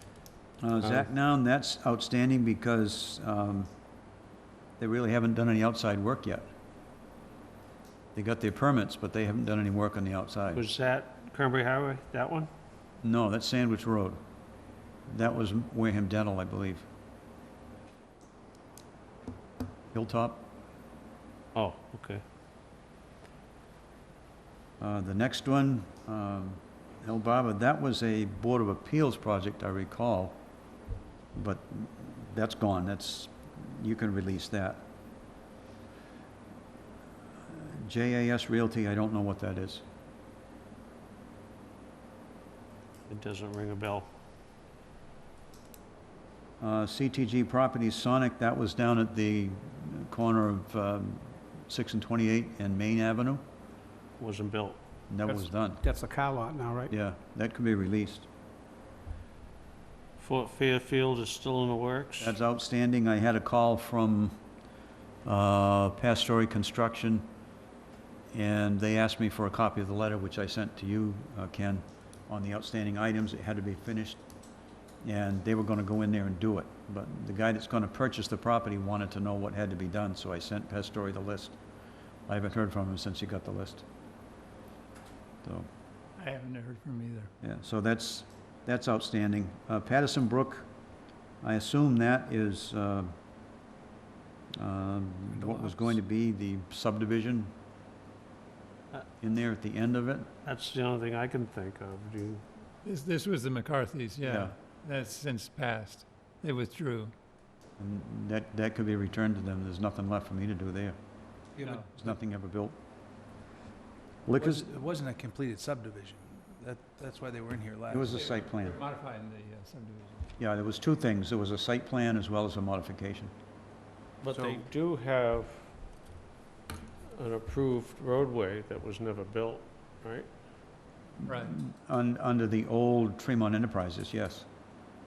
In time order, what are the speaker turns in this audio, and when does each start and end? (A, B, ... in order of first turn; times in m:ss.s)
0:00.6-0:03.7 A
0:00.8-0:01.1 B
0:04.8-0:06.5 A
0:08.2-0:10.6 A
0:10.5-0:12.5 B
0:13.0-0:14.2 A
0:15.1-0:16.9 A
0:19.9-0:20.5 A
0:21.6-0:22.2 B
0:24.8-0:30.4 A
0:31.4-0:34.9 A
0:37.5-0:39.8 A
0:43.1-0:44.1 B
0:46.6-0:53.4 A
0:54.2-0:54.8 B
0:55.1-0:55.8 A
0:55.3-0:57.0 C
0:56.9-0:58.3 A
1:00.2-1:02.4 B
1:02.2-1:04.4 A
1:05.2-1:07.3 A
1:08.3-1:14.2 A
1:15.0-1:21.6 A
1:22.3-1:23.9 A
1:26.2-1:27.3 D
1:27.4-1:30.7 A
1:31.4-1:33.1 A
1:34.6-1:37.6 A
1:35.4-1:36.0 C
1:39.2-1:40.3 A
1:40.4-1:42.4 B
1:42.8-1:47.1 D
1:44.2-1:44.6 A
1:47.8-1:51.0 A
1:51.6-1:52.1 D
1:51.9-1:52.8 A
1:54.3-1:54.7 A
1:54.4-1:58.1 E
1:57.9-1:58.8 A
1:57.9-2:00.3 D
2:00.4-2:03.3 A
2:04.2-2:05.7 B
2:07.1-2:10.3 B
2:11.2-2:14.5 A
2:11.2-2:11.6 D